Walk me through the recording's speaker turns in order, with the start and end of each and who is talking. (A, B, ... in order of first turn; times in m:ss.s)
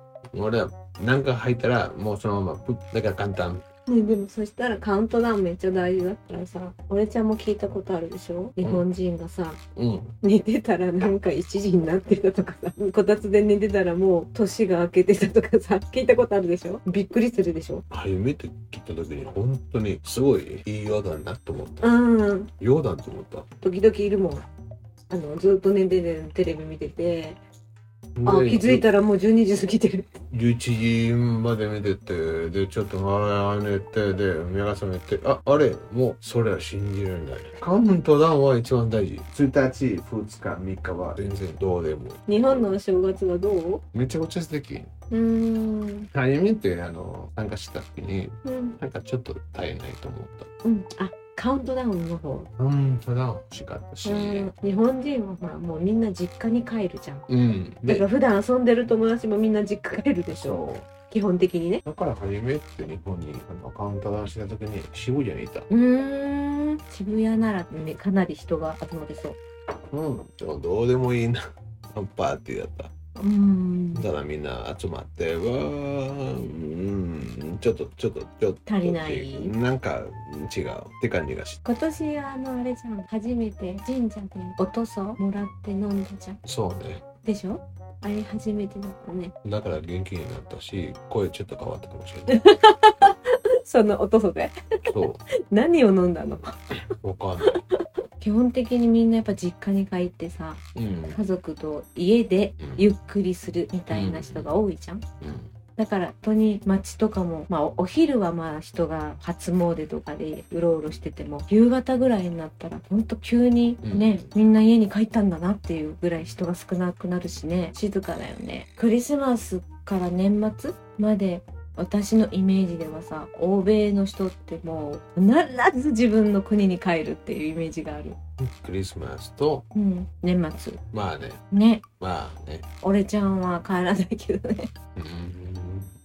0:00.3-0:03.6 A
0:03.9-0:09.6 B
0:08.6-0:08.8 A
0:09.8-0:10.1 A
0:10.2-0:17.8 B
0:17.9-0:22.0 A
0:21.8-0:22.5 B
0:22.6-0:23.5 A
0:23.6-0:24.4 B
0:25.1-0:27.4 B
0:28.2-0:28.9 A
0:28.2-0:30.1 B
0:30.3-0:42.8 A
0:42.3-0:43.8 B
0:43.9-0:44.9 A
0:45.1-0:46.1 B
0:46.1-0:50.5 A
0:48.4-0:48.8 B
0:50.6-0:52.5 B
0:52.6-0:54.5 A
0:54.0-0:57.2 B
0:57.3-0:58.1 A
0:57.9-1:01.8 B
1:00.3-1:00.9 A
1:01.8-1:05.7 A
1:05.7-1:09.4 B
1:09.9-1:11.4 A
1:11.9-1:12.9 A
1:13.2-1:14.0 B
1:13.9-1:21.6 A
1:18.7-1:19.5 B
1:21.6-1:26.4 B
1:26.4-1:27.0 A
1:27.2-1:29.3 B
1:29.4-1:32.4 A
1:32.3-1:34.9 B
1:34.8-1:35.2 A
1:35.5-1:36.6 B
1:37.0-1:37.6 A
1:38.2-1:40.6 B
1:40.8-1:41.2 A
1:41.1-1:45.0 B
1:42.6-1:42.8 A
1:43.9-1:44.5 A
1:45.2-1:45.5 A
1:45.8-2:08.2 B
1:53.8-1:54.3 A
2:08.4-2:09.7 A
2:09.7-2:10.8 B
2:10.9-2:11.4 A
2:11.5-2:11.8 B
2:12.0-2:12.6 A
2:12.8-2:14.7 B
2:14.9-2:15.9 A